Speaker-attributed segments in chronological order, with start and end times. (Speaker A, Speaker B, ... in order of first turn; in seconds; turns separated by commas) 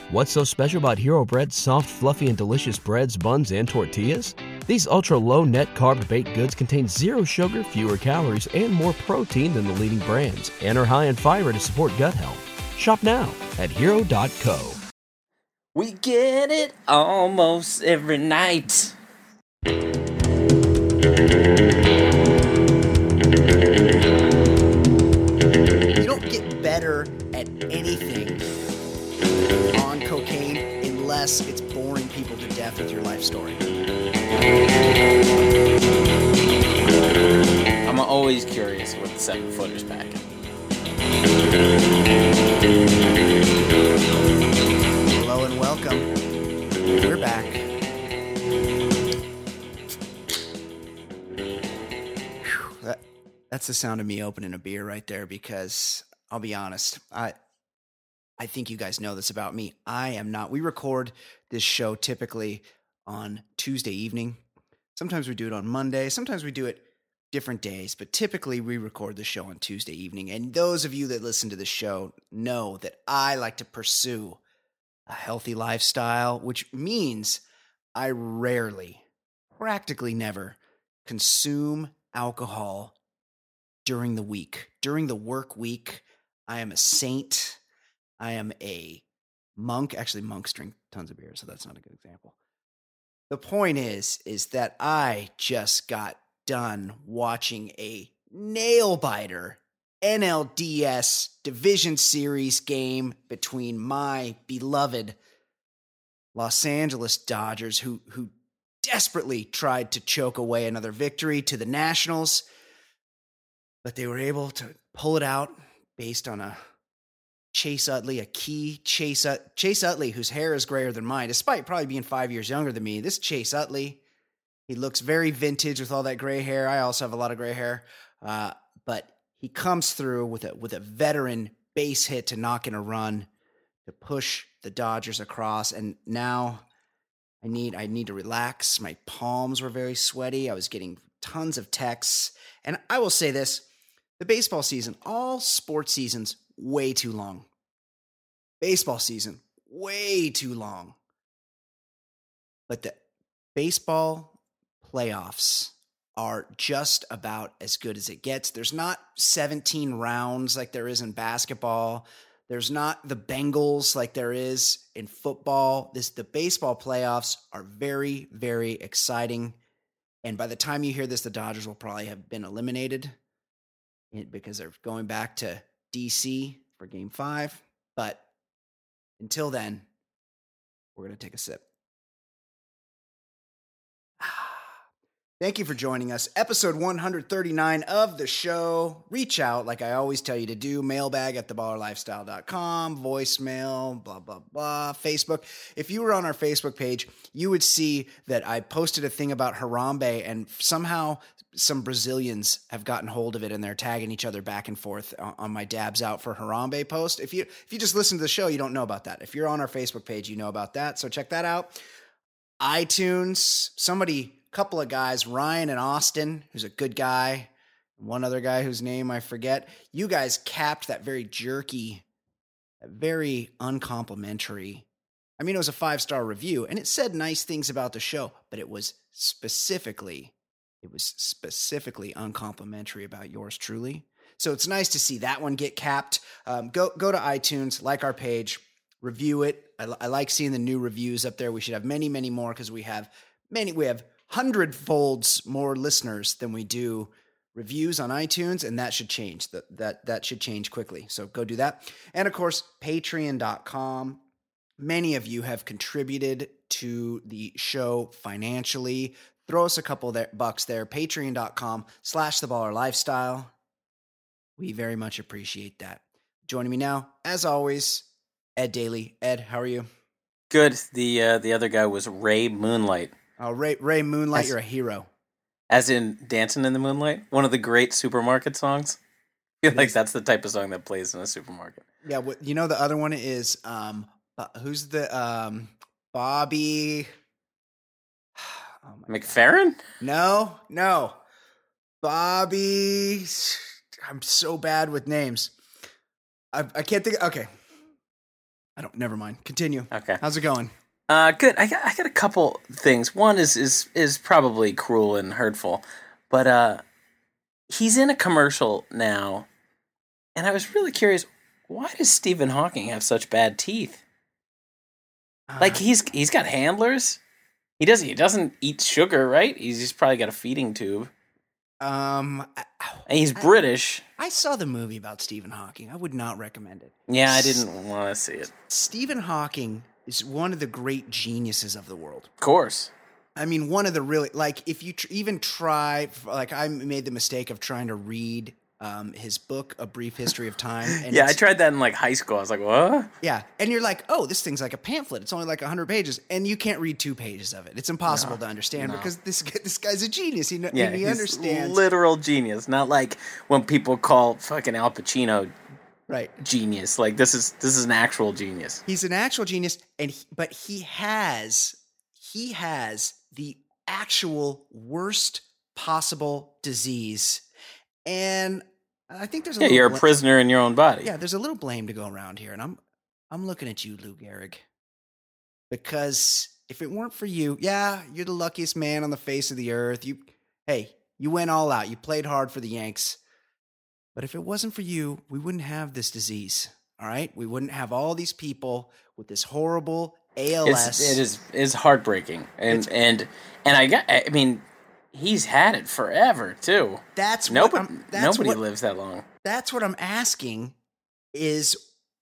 Speaker A: 0.1-14.8, Speaker B: 15.7-18.9, Speaker C: 25.9-28.5, Speaker C: 29.7-33.7, Speaker B: 37.8-40.2, Speaker C: 45.1-46.1, Speaker C: 46.9-47.7, Speaker C: 52.4-53.0, Speaker C: 53.5-57.3, Speaker C: 58.4-64.4, Speaker C: 64.9-74.4, Speaker C: 75.1-77.4, Speaker C: 78.0-79.0, Speaker C: 79.5-82.9, Speaker C: 83.8-87.6, Speaker C: 88.2-89.0, Speaker C: 89.6-92.3, Speaker C: 93.3-105.2, Speaker C: 106.3-108.3, Speaker C: 108.8-112.4, Speaker C: 113.8-116.6, Speaker C: 117.5-124.0, Speaker C: 124.7-133.3, Speaker C: 133.8-136.6, Speaker C: 137.4-143.6, Speaker C: 144.2-147.5, Speaker C: 148.6-150.9, Speaker C: 152.7-153.0, Speaker C: 153.5-169.6, Speaker C: 170.2-173.2, Speaker C: 174.1-178.2, Speaker C: 179.2-179.8, Speaker C: 180.9-181.6, Speaker C: 184.2-184.8, Speaker C: 185.4-211.8, Speaker C: 212.6-222.0, Speaker C: 222.8-224.8, Speaker C: 225.4-254.2, Speaker C: 254.8-263.5, Speaker C: 264.6-269.9, Speaker B: 270.5-273.1, Speaker C: 273.4-275.1, Speaker B: 275.7-279.0, Speaker B: 279.6-281.8, Speaker C: 282.0-287.1, Speaker C: 288.4-289.4, Speaker B: 289.1-289.8, Speaker C: 290.0-291.2, Speaker C: 292.0-295.5, Speaker C: 296.5-297.5, Speaker C: 298.8-300.7, Speaker B: 299.9-300.2, Speaker B: 301.1-306.8, Speaker B: 307.7-309.5, Speaker B: 310.4-314.0, Speaker C: 315.5-315.8, Speaker B: 315.6-317.2, Speaker B: 317.8-321.1, Speaker C: 321.8-323.5, Speaker B: 323.1-324.0, Speaker C: 324.2-327.6, Speaker B: 327.1-328.5, Speaker C: 328.7-332.3, Speaker B: 332.4-332.9, Speaker C: 333.4-341.4, Speaker B: 340.9-343.1, Speaker C: 343.2-351.8, Speaker B: 348.1-349.1, Speaker B: 350.7-355.5, Speaker C: 356.1-356.3, Speaker B: 356.4-358.8, Speaker C: 358.9-367.4, Speaker C: 368.1-370.1, Speaker B: 369.6-371.1, Speaker C: 371.0-372.8, Speaker C: 373.3-374.6, Speaker C: 375.7-383.2, Speaker C: 384.1-391.2, Speaker B: 390.6-399.2, Speaker C: 397.1-398.6, Speaker C: 399.4-400.7, Speaker C: 401.3-401.8